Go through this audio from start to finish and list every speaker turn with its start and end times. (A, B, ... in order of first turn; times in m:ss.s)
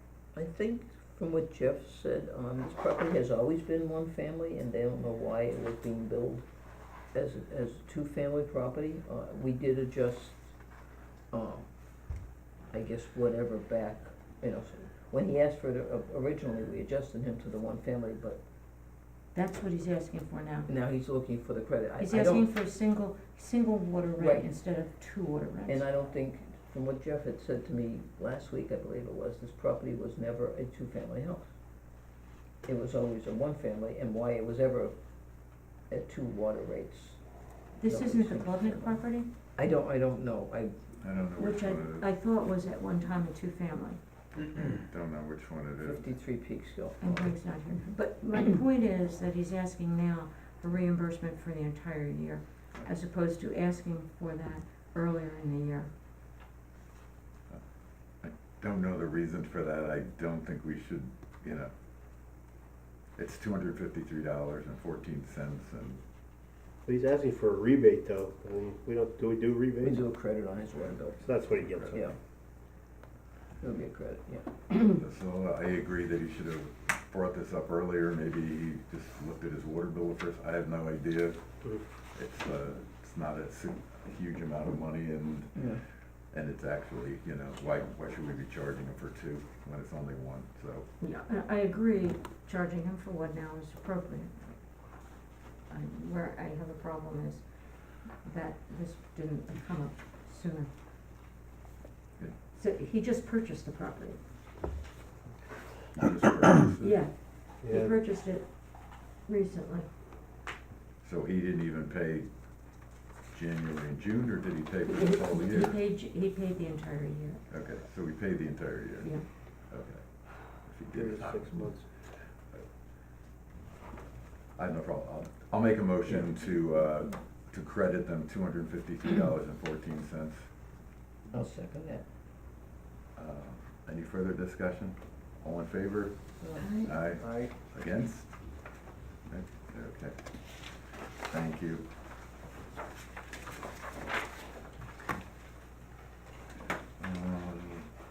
0:00.3-0:06.4 A
0:07.1-0:10.5 A
0:11.3-0:11.7 A
0:12.7-0:18.4 A
0:19.3-0:20.7 B
0:20.7-0:22.5 A
0:22.0-0:25.9 B
0:24.2-0:24.5 A
0:25.7-0:31.5 A
0:32.6-0:34.9 A
0:35.9-0:37.2 A
0:37.8-0:39.3 B
0:37.8-0:39.0 A
0:39.6-0:40.8 A
0:41.0-0:42.1 C
0:41.4-0:44.0 B
0:44.6-0:46.1 C
0:45.8-0:47.4 A
0:47.0-0:55.9 B
0:58.2-1:01.7 C
1:03.2-1:06.0 C
1:06.8-1:10.0 D
1:09.8-1:11.3 A
1:11.2-1:12.1 D
1:11.9-1:12.2 A
1:13.6-1:15.0 A
1:14.9-1:21.5 C
1:22.1-1:25.7 C
1:25.6-1:25.8 A
1:26.3-1:30.9 C
1:31.0-1:34.6 B
1:35.7-1:37.4 B
1:38.2-1:40.7 B
1:42.5-1:44.2 B
1:45.9-1:47.0 C
1:46.8-1:49.9 B
1:47.6-1:48.0 D
1:51.0-1:52.3 C
1:53.3-1:55.8 C
1:54.9-1:57.4 B
1:57.5-2:02.6 C
2:00.9-2:01.9 D
2:04.6-2:10.5 C
2:11.3-2:12.0 A
2:13.2-2:18.7 C
2:16.4-2:16.7 A
2:16.6-2:16.9 B
2:17.1-2:17.5 D
2:19.3-2:20.3 C
2:21.2-2:21.9 C
2:27.0-2:28.0 C